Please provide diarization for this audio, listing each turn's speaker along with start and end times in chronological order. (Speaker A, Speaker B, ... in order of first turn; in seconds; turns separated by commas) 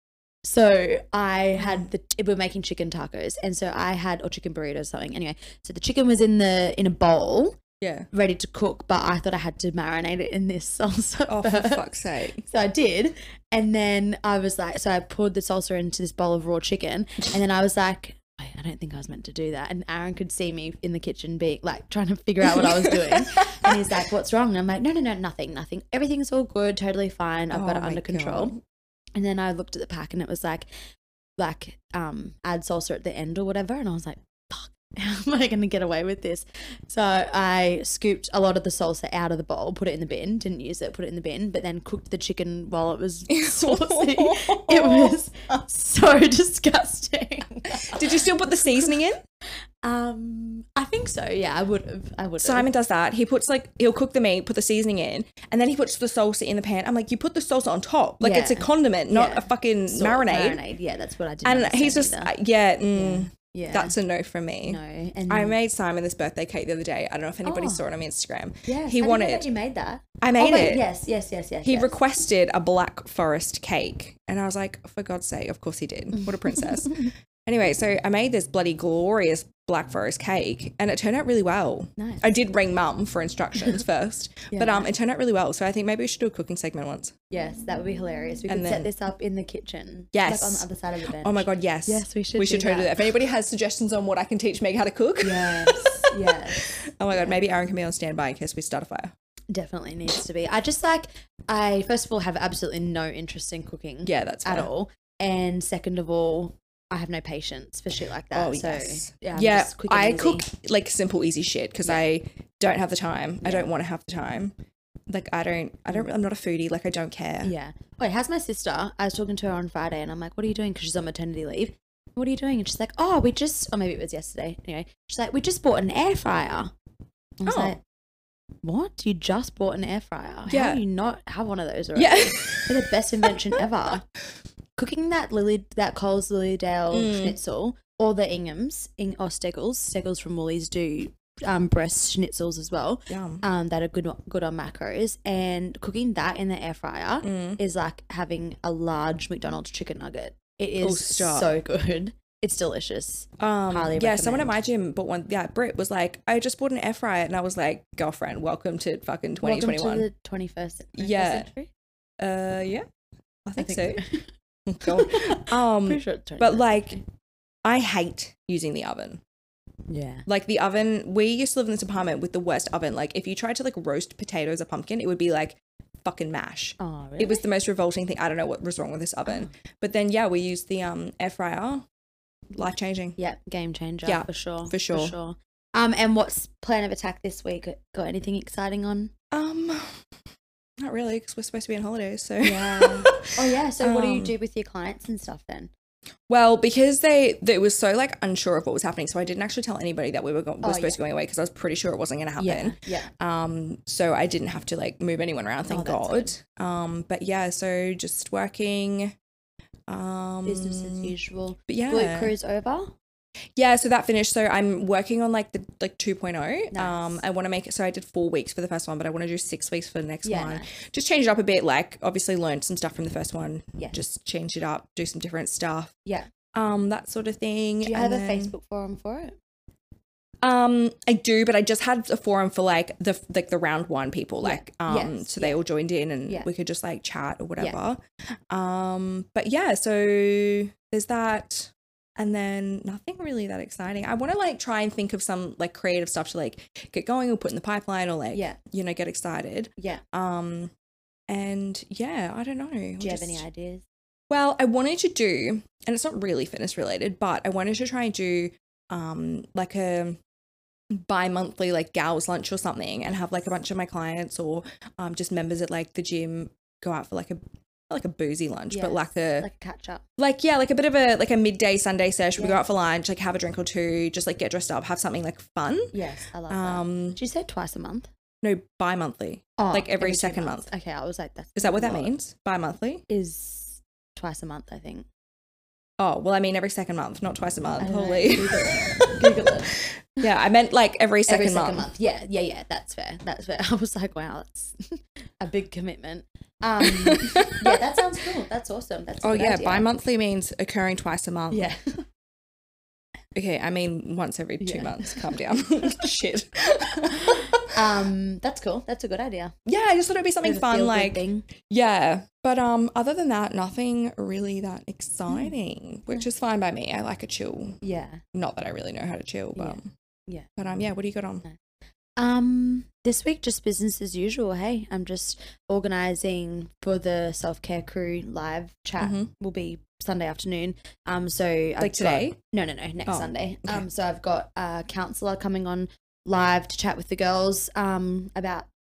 Speaker A: 0.4-7.6, Speaker B: 1.6-1.9, Speaker B: 7.8-8.1, Speaker A: 8.1-11.8, Speaker B: 11.3-12.4, Speaker A: 12.4-28.6, Speaker B: 22.4-23.8, Speaker B: 27.5-28.6, Speaker A: 29.1-30.7, Speaker A: 31.4-49.0, Speaker B: 43.3-45.2, Speaker B: 47.8-49.2, Speaker A: 49.8-52.7, Speaker B: 52.4-60.6, Speaker A: 58.2-62.3, Speaker B: 61.4-69.5, Speaker A: 62.9-64.0, Speaker A: 64.6-65.6, Speaker A: 67.4-67.8, Speaker A: 68.7-72.0, Speaker B: 70.2-70.8, Speaker B: 71.6-87.1, Speaker A: 76.2-77.1, Speaker A: 82.0-82.3, Speaker A: 84.5-84.9, Speaker A: 87.3-93.0, Speaker B: 88.5-88.9, Speaker B: 90.1-90.7, Speaker B: 91.2-99.1, Speaker A: 95.2-97.4, Speaker A: 99.5-110.5, Speaker B: 104.0-104.7, Speaker B: 108.3-114.5, Speaker A: 113.4-113.7, Speaker B: 115.1-117.5, Speaker A: 117.4-126.7, Speaker A: 127.4-127.8, Speaker B: 127.5-127.8, Speaker A: 128.6-134.0, Speaker B: 130.5-130.8, Speaker B: 131.9-133.6, Speaker A: 134.8-154.6, Speaker B: 136.9-137.4, Speaker B: 143.1-143.4, Speaker B: 147.2-147.6, Speaker B: 150.8-151.5, Speaker B: 153.4-160.1, Speaker A: 159.4-161.7, Speaker B: 161.0-161.5, Speaker B: 162.2-162.8, Speaker B: 163.4-164.0, Speaker A: 163.6-167.0, Speaker B: 164.7-167.0, Speaker B: 167.6-169.2, Speaker A: 169.9-170.2, Speaker B: 170.3-181.8, Speaker A: 176.8-177.4, Speaker A: 179.2-179.5, Speaker B: 182.5-183.2, Speaker A: 183.2-189.1, Speaker B: 184.0-185.1, Speaker B: 189.3-190.0, Speaker B: 190.8-194.3, Speaker A: 192.4-195.7, Speaker B: 196.3-209.1, Speaker A: 200.6-201.0, Speaker A: 202.4-203.1, Speaker A: 205.7-206.3, Speaker B: 209.9-211.1, Speaker A: 210.4-212.9, Speaker B: 211.7-212.3, Speaker B: 213.6-225.9, Speaker A: 216.7-217.2, Speaker A: 220.2-220.7, Speaker B: 226.5-228.5, Speaker A: 227.8-229.3, Speaker B: 230.4-250.7, Speaker A: 234.4-235.6, Speaker A: 248.3-248.6, Speaker A: 249.8-250.0, Speaker B: 251.3-253.4, Speaker A: 253.0-253.8, Speaker B: 254.3-260.2, Speaker B: 260.9-269.5, Speaker A: 268.7-270.0, Speaker B: 270.2-275.9, Speaker A: 275.9-278.1, Speaker B: 276.5-277.2, Speaker B: 278.4-280.7, Speaker A: 279.6-282.1, Speaker B: 281.6-283.0, Speaker A: 283.1-285.1, Speaker B: 286.0-291.9, Speaker A: 287.8-289.8, Speaker A: 291.3-294.8, Speaker A: 295.4-299.9, Speaker B: 296.8-297.7, Speaker B: 299.2-301.7, Speaker A: 301.5-302.0, Speaker B: 303.4-307.7, Speaker A: 304.6-306.1, Speaker A: 307.0-309.5, Speaker B: 309.6-317.8, Speaker A: 310.4-311.5, Speaker A: 317.8-318.2, Speaker B: 318.3-319.9, Speaker A: 319.6-320.5, Speaker B: 320.6-321.4, Speaker A: 322.2-338.7, Speaker B: 329.0-329.3, Speaker B: 331.8-332.4, Speaker B: 333.1-333.8